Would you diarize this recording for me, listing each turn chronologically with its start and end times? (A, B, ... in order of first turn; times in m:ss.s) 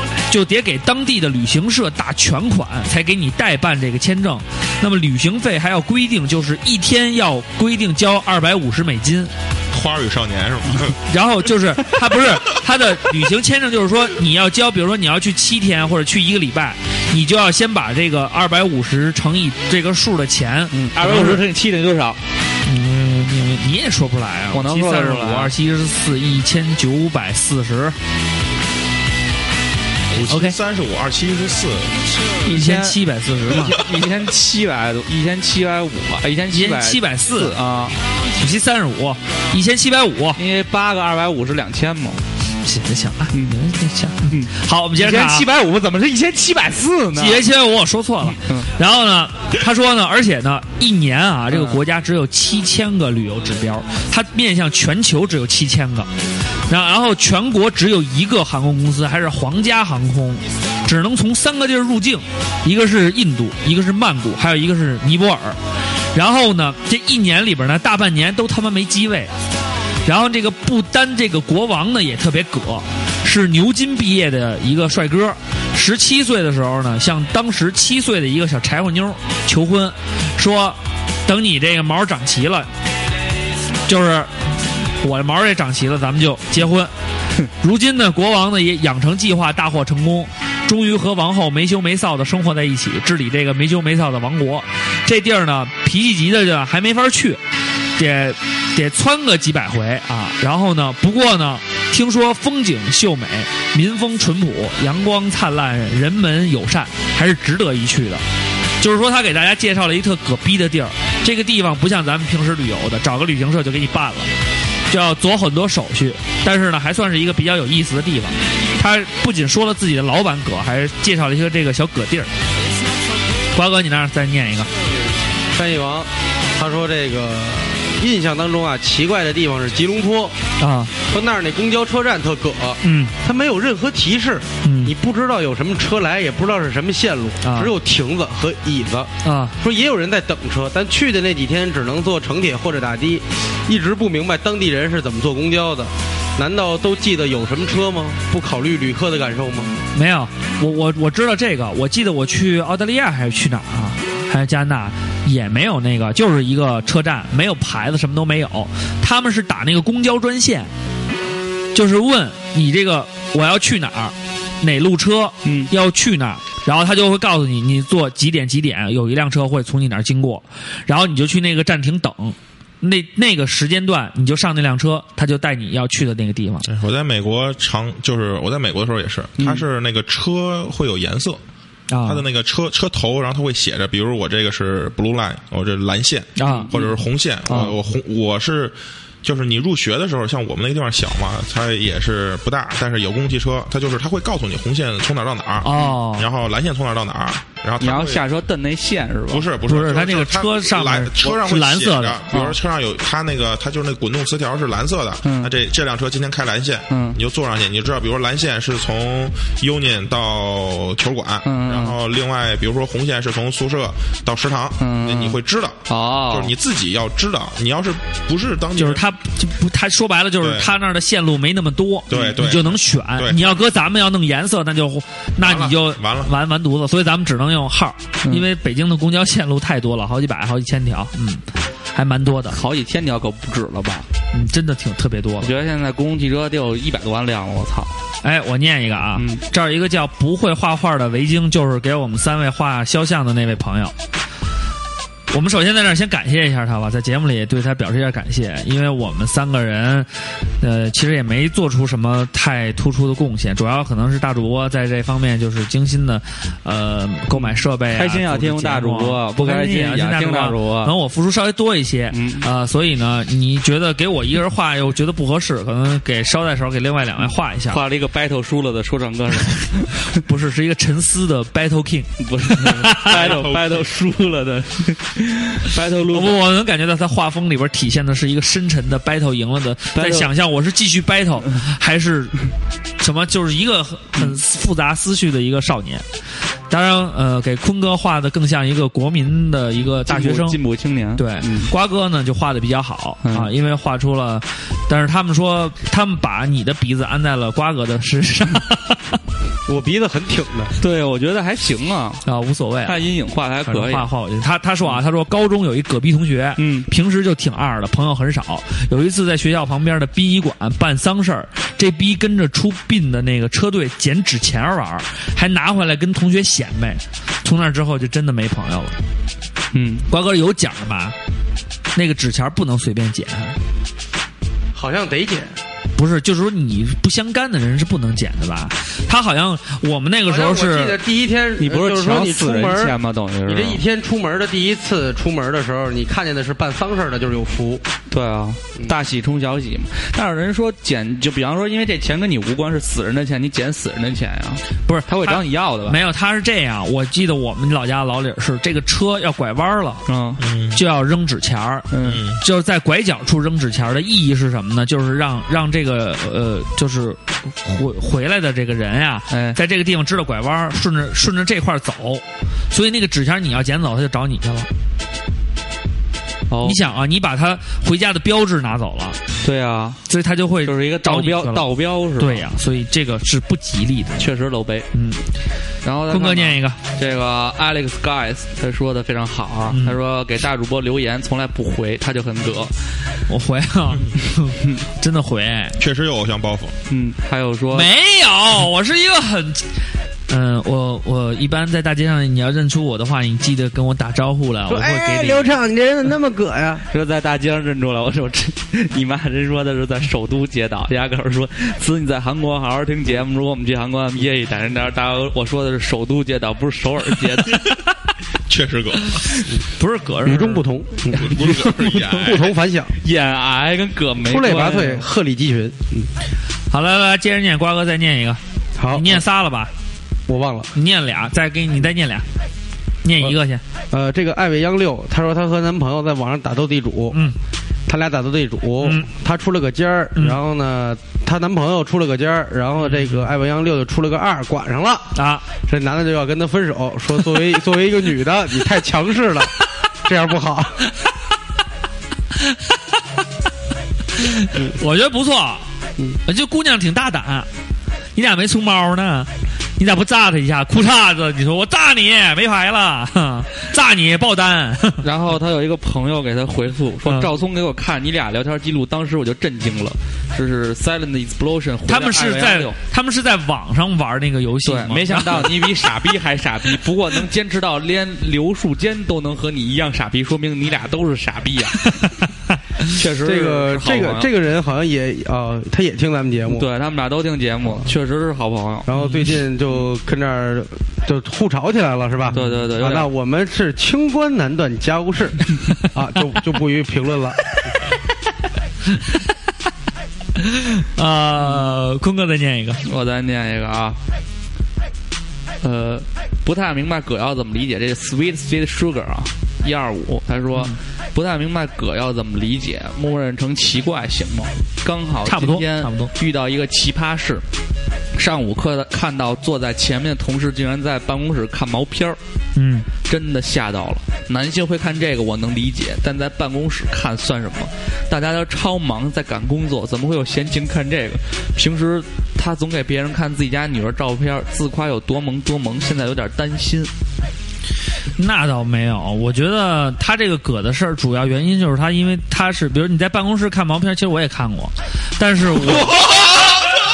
0:00.3-0:09.3 A
0:09.7-0:11.0 B
0:11.1-0:21.4 A
0:20.7-0:22.2 C
0:22.6-0:28.0 A
0:24.5-0:25.5 C
0:30.1-0:31.9 B
0:30.3-0:30.6 A
0:32.4-0:33.0 C
0:32.4-0:33.8 A
0:33.5-0:37.9 C
0:36.5-0:37.5 A
0:38.4-0:40.4 A
0:40.4-0:42.2 C
0:42.6-0:45.5 A
0:44.3-0:47.4 C
0:47.1-0:56.1 A
0:48.3-0:48.7 C
0:51.5-0:51.8 C
0:56.7-1:05.6 A
1:06.1-1:09.3 A
1:10.0-1:22.7 A
1:23.8-1:24.3 A
1:25.0-1:26.9 A
1:27.6-1:37.4 A
1:38.0-1:48.2 A
1:48.8-1:54.3 A
1:54.9-2:02.3 A
2:03.5-2:04.7 A
2:05.5-2:10.3 D
2:10.6-2:10.9 A
2:11.0-2:29.8 D
2:12.8-2:13.1 A
2:14.6-2:14.9 A
2:17.4-2:17.7 A
2:19.2-2:19.6 A
2:29.9-2:40.7 A
2:41.7-2:56.7 A
2:45.4-2:45.7 C
2:56.6-3:01.4 B
2:59.4-2:59.6 C
3:01.9-3:02.2 A
3:02.0-3:18.2 B
3:06.4-3:06.7 A
3:06.4-3:06.8 C
3:15.6-3:16.3 A
3:17.8-3:19.5 C
3:19.3-3:39.0 B
3:19.7-3:22.3 A
3:22.3-3:22.6 C
3:25.2-3:25.5 C
3:26.9-3:27.2 C
3:31.4-3:32.0 C
3:34.8-3:36.5 C
3:38.8-3:51.4 A
3:40.4-3:40.7 B
3:42.1-3:43.6 B
3:45.4-3:46.3 B
3:51.9-3:52.6 A
3:52.5-3:54.1 C
3:54.3-3:55.5 A
3:55.4-3:57.9 C
3:58.2-4:03.9 A
3:59.2-3:59.4 C
4:05.3-4:10.1 A
4:10.6-4:27.8 A
4:17.3-4:20.9 C
4:22.1-4:22.5 C
4:27.7-4:30.1 C
4:30.1-4:33.3 A
4:32.2-4:36.4 C
4:33.1-4:33.9 B
4:36.1-4:42.4 A
4:39.9-4:40.3 C
4:43.0-4:46.0 A
4:46.7-4:50.6 A
4:50.0-4:51.7 C
4:51.2-4:59.2 A
4:53.2-4:53.5 C
4:59.7-5:00.7 D
5:00.8-5:02.2 C
5:02.2-5:03.0 A
5:02.8-5:04.1 C
5:03.6-5:18.9 A
5:06.6-5:06.9 C
5:19.7-5:20.1 C
5:20.1-5:21.1 A
5:21.9-5:23.6 A
5:24.7-5:25.5 D
5:26.0-5:31.0 A
5:30.3-5:32.9 D
5:31.6-5:33.8 C
5:33.4-5:37.8 D
5:38.1-5:46.0 C
5:44.9-5:50.0 A
5:50.1-5:50.4 C
5:50.4-5:50.8 B
5:50.7-6:04.7 A
5:51.9-5:52.2 C
5:52.0-5:52.4 B
5:59.3-5:59.6 C
6:06.5-6:06.8 C
6:06.6-6:09.2 A
6:09.4-6:10.0 C
6:10.1-6:14.3 A
6:10.6-6:12.4 C
6:14.2-6:14.9 C
6:14.9-6:15.2 A
6:15.8-6:22.7 C
6:16.1-6:16.8 A
6:19.7-6:20.0 A
6:23.3-6:25.8 A
6:25.8-6:26.7 B
6:26.9-6:27.9 C
6:27.7-6:29.6 A
6:30.3-6:35.5 A
6:34.7-6:36.8 D
6:36.9-6:47.7 C
6:48.5-6:49.2 B
6:49.8-6:50.6 A
6:50.2-6:53.0 D
6:51.1-6:52.5 B
6:52.0-6:52.4 C
6:53.0-6:55.1 C
6:54.2-6:56.1 D
6:56.7-6:59.7 A
6:58.8-6:59.2 D
7:00.3-7:00.7 D
7:00.7-7:02.2 A
7:03.0-7:03.6 A
7:03.9-7:07.2 D
7:07.9-7:15.1 D
7:08.8-7:09.1 A
7:15.1-7:15.4 A
7:15.6-7:20.8 D
7:22.4-7:22.8 A
7:24.2-7:25.6 A
7:26.2-7:27.5 A
7:28.1-7:35.0 A
7:35.0-7:42.8 C
7:37.0-7:37.3 A
7:41.9-7:45.8 A
7:44.6-7:51.9 C
7:52.8-7:54.3 C
7:53.2-7:56.6 D
7:56.5-7:59.0 C
7:58.8-8:07.5 D
8:02.3-8:03.1 C
8:10.4-8:12.8 A
8:12.8-8:14.0 C
8:15.6-8:27.4 C
8:25.2-8:26.1 A
8:28.2-8:32.2 C
8:32.6-8:32.9 A
8:33.0-8:46.9 C
8:48.2-8:56.0 A